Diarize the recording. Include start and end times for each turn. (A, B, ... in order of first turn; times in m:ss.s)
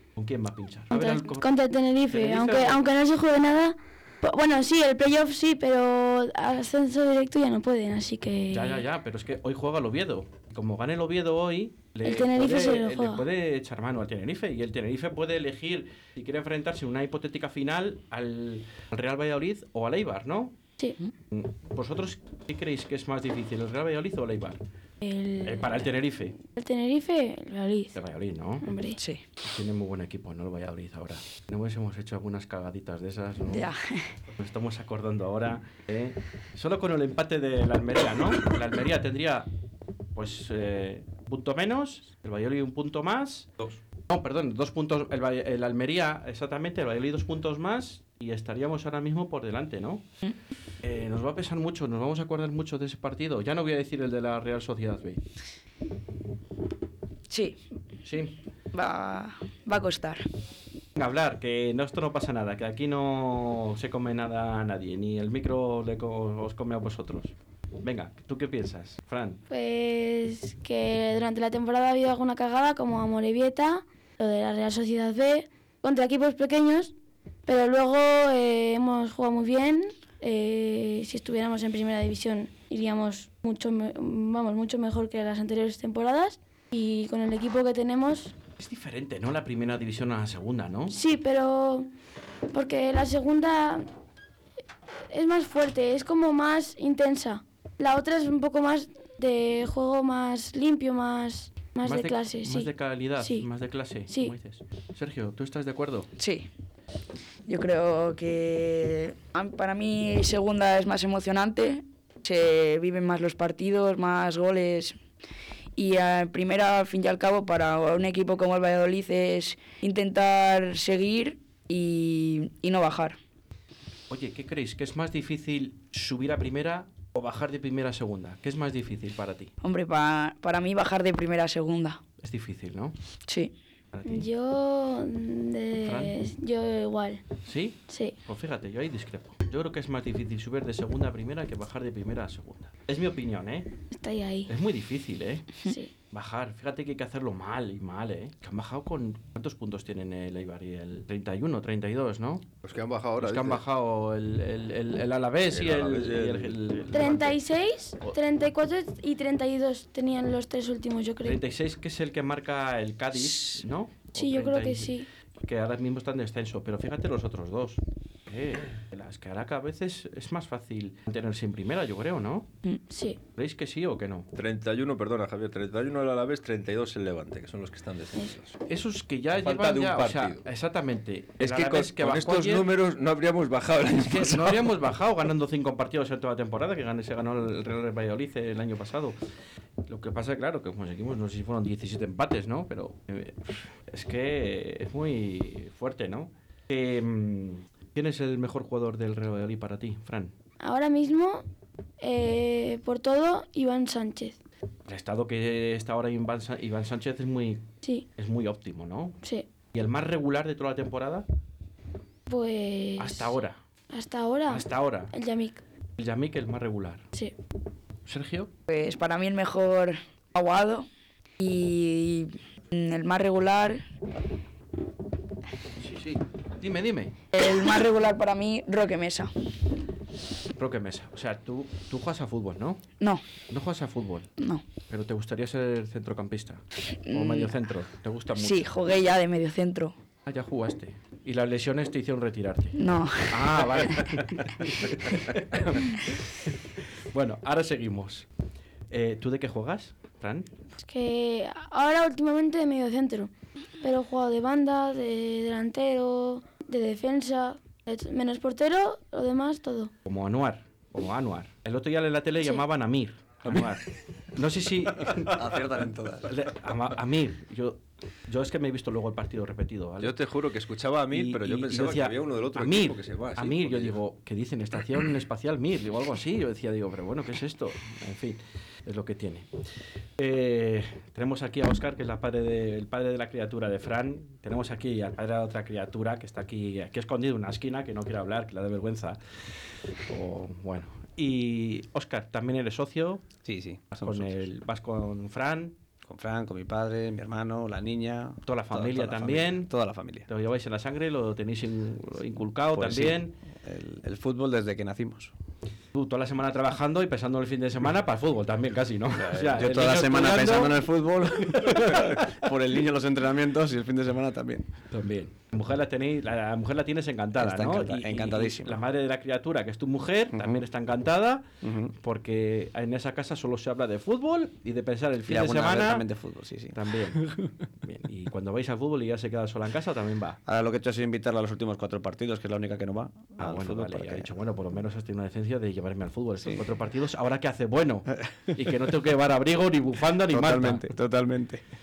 0:00.2-0:01.4 A
0:00.9-0:08.8 B
0:02.1-0:02.8 A
0:08.5-0:20.6 A
0:12.0-0:13.2 B
0:21.3-0:24.6 A
0:25.0-0:25.9 B
0:25.4-0:26.3 A
0:26.6-0:27.9 B
0:27.9-0:28.6 A
0:28.6-0:29.0 B
0:29.0-0:29.2 C
0:29.4-0:33.7 A
0:33.5-0:34.1 C
0:34.3-0:39.5 A
0:40.1-0:50.0 A
0:50.8-0:55.2 A
0:57.3-0:57.6 C
0:58.0-0:58.3 A
0:58.7-1:00.2 C
1:01.0-1:09.4 A
1:09.5-1:16.9 B
1:17.4-1:28.3 B
1:28.6-1:30.9 A
1:30.9-1:31.9 B
1:32.5-1:33.9 B
1:35.1-1:43.5 B
1:41.8-1:46.1 A
1:44.1-1:44.3 B
1:46.2-1:46.5 C
1:47.5-1:55.0 C
1:55.8-2:03.2 C
2:04.1-2:09.5 A
2:09.6-2:12.0 C
2:12.2-2:12.9 A
2:13.3-2:13.5 C
2:13.9-2:14.3 A
2:14.0-2:17.2 B
2:15.8-2:16.1 A
2:17.4-2:23.7 A
2:17.9-2:18.2 B
2:23.9-2:24.5 B
2:24.5-2:25.5 A
2:25.6-2:25.9 B
2:26.1-2:32.4 A
2:32.6-2:33.6 D
2:33.2-2:37.4 A
2:35.5-2:36.6 D
2:36.9-2:41.4 B
2:41.2-2:44.9 A
2:44.2-2:45.1 B
2:45.4-2:52.5 A
2:52.9-2:53.2 B
2:53.4-2:54.3 A
2:54.3-2:58.5 D
2:58.7-3:02.7 A
2:59.4-3:00.4 D
3:01.4-3:04.7 D
3:04.0-3:09.2 A
3:09.8-3:20.3 A
3:20.6-3:21.4 B
3:22.0-3:24.4 B
3:24.9-3:27.6 A
3:28.2-3:29.2 A
3:29.7-3:31.2 A
3:32.3-3:33.4 B
3:33.0-3:33.6 A
3:33.9-3:35.6 B
3:34.5-3:35.1 A
3:36.0-3:37.0 A
3:38.0-3:38.5 A
3:38.7-3:40.9 C
3:41.4-3:43.8 C
3:45.8-3:47.2 A
3:47.3-3:49.3 C
3:50.5-3:52.8 A
3:53.5-3:54.3 A
3:54.4-3:54.6 C
3:54.9-3:58.6 A
3:57.1-3:57.5 C
3:58.4-3:59.9 C
4:00.2-4:06.2 A
4:02.8-4:04.0 C
4:07.1-4:08.3 A
4:08.9-4:10.5 A
4:10.8-4:19.9 B
4:20.0-4:25.4 A
4:25.1-4:26.3 E
4:26.2-4:30.2 A
4:30.0-4:34.0 D
4:31.1-4:39.5 A
4:40.2-4:49.2 A
4:50.1-4:53.2 A
4:53.4-4:54.4 E
4:53.9-4:55.8 A
4:56.0-5:00.3 E
4:58.4-4:59.7 A
5:00.3-5:03.3 A
5:02.7-5:05.3 E
5:05.9-5:12.4 A
5:09.1-5:14.7 E
5:14.9-5:21.4 A
5:17.4-5:18.8 E
5:20.3-5:20.6 E
5:21.6-5:21.9 E
5:22.0-5:26.0 A
5:25.3-5:26.8 E
5:26.7-5:30.4 A
5:30.4-5:34.3 E
5:33.4-5:40.9 A
5:38.2-5:38.6 E
5:40.3-5:41.6 E